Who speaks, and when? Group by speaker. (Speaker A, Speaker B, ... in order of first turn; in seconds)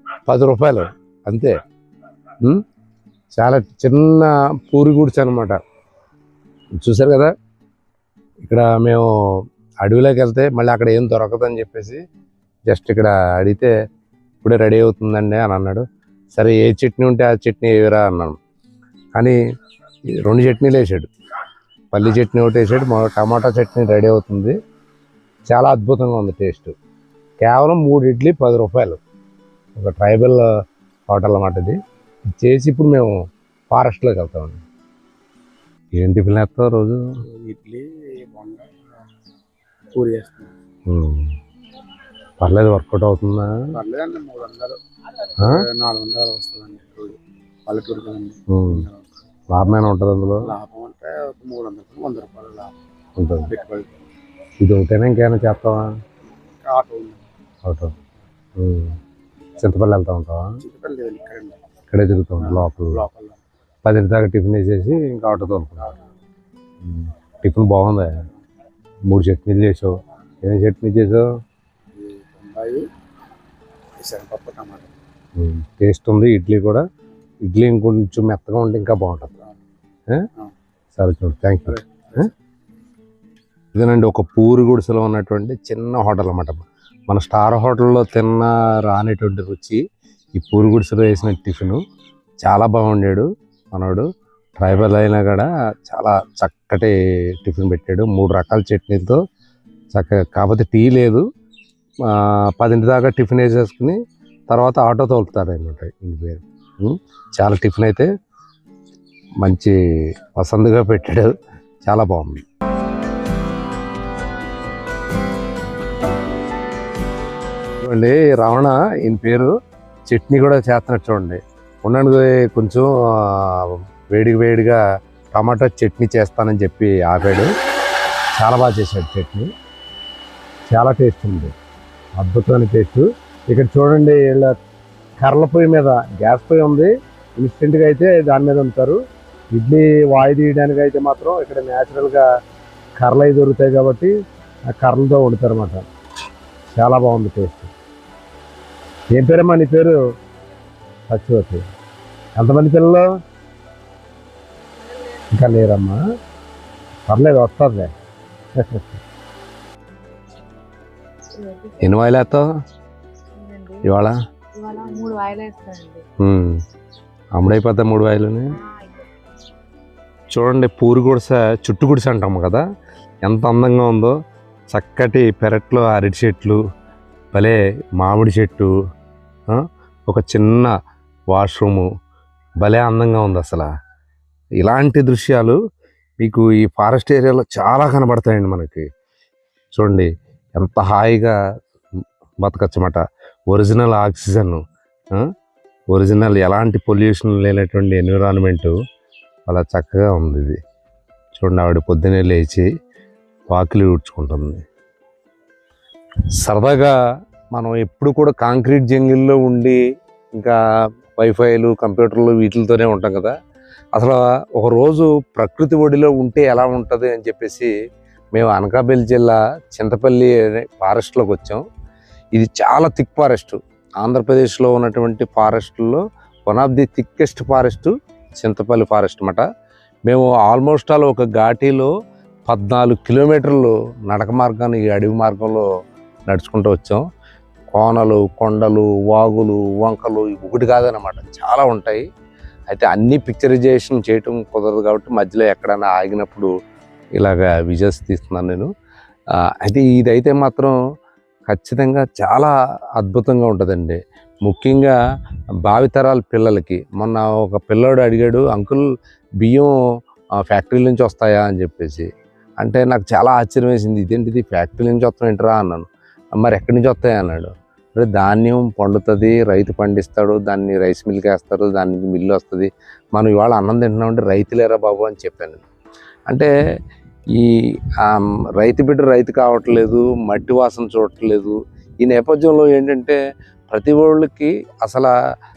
Speaker A: 0.2-1.6, 3.3-5.6, 6.8-7.3, 8.4-12.0, 12.7-13.7, 14.4-18.4, 20.2-21.1, 21.9-24.6, 25.5-26.7, 27.4-29.0, 29.8-30.4, 31.1-31.8, 32.4-33.1, 33.7-34.6, 36.0-37.0, 40.9-41.3, 42.4-43.6, 48.5-48.9, 49.5-50.5, 53.2-53.5, 54.6-55.9, 57.6-57.9, 58.6-59.0, 59.6-60.6, 61.9-63.0, 63.8-65.9, 66.8-68.2, 69.1-71.3, 75.4-76.8, 77.4-79.4, 81.0-82.3, 83.7-89.8, 90.3-91.8, 92.4-94.1, 94.6-99.2, 99.9-101.2, 102.0-104.0, 104.5-108.1, 109.4-112.4, 117.8-119.5, 120.1-124.8, 125.3-127.5, 128.3-129.5, 130.7-131.5, 132.2-134.5, 135.2-139.0, 139.5-142.2, 143.0-144.1, 144.7-145.8, 146.7-147.7, 149.1-150.0, 151.1-151.7, 152.3-153.1, 155.3-156.0, 157.1-157.9, 158.6-159.0, 161.8-162.4, 163.8-164.1, 166.2-166.6, 167.3-168.5, 170.3-172.6, 173.2-174.2, 174.7-176.6, 177.3-178.7, 179.5-180.7, 181.3-181.9, 182.6-183.7, 184.6-185.6, 186.2-188.9, 189.7-191.4, 192.4-195.3, 195.9-198.8, 199.5-200.6, 201.3-202.7, 203.5-204.6, 206.4-206.9, 207.5-209.8, 211.2-213.3, 213.9-217.7, 218.3-221.6, 222.3-229.4, 230.1-231.9, 232.5-235.6, 236.3-237.0, 237.7-242.0, 242.7-246.5, 247.2-248.7, 249.5-250.8, 251.5-254.9, 255.6-258.8, 259.4-259.7, 260.4-262.1, 262.6-265.9, 266.4-275.6, 277.3-283.2, 283.7-285.1
Speaker B: 37.3-38.7, 39.9-40.5, 43.7-44.8, 45.4-49.0, 50.4-52.7, 53.5-53.9, 56.6-57.2, 60.6-61.6, 62.5-63.4, 72.0-72.9, 74.0-74.9
Speaker C: 154.8-155.2, 161.3-161.9, 163.4-163.9, 164.5-166.0, 168.6-169.1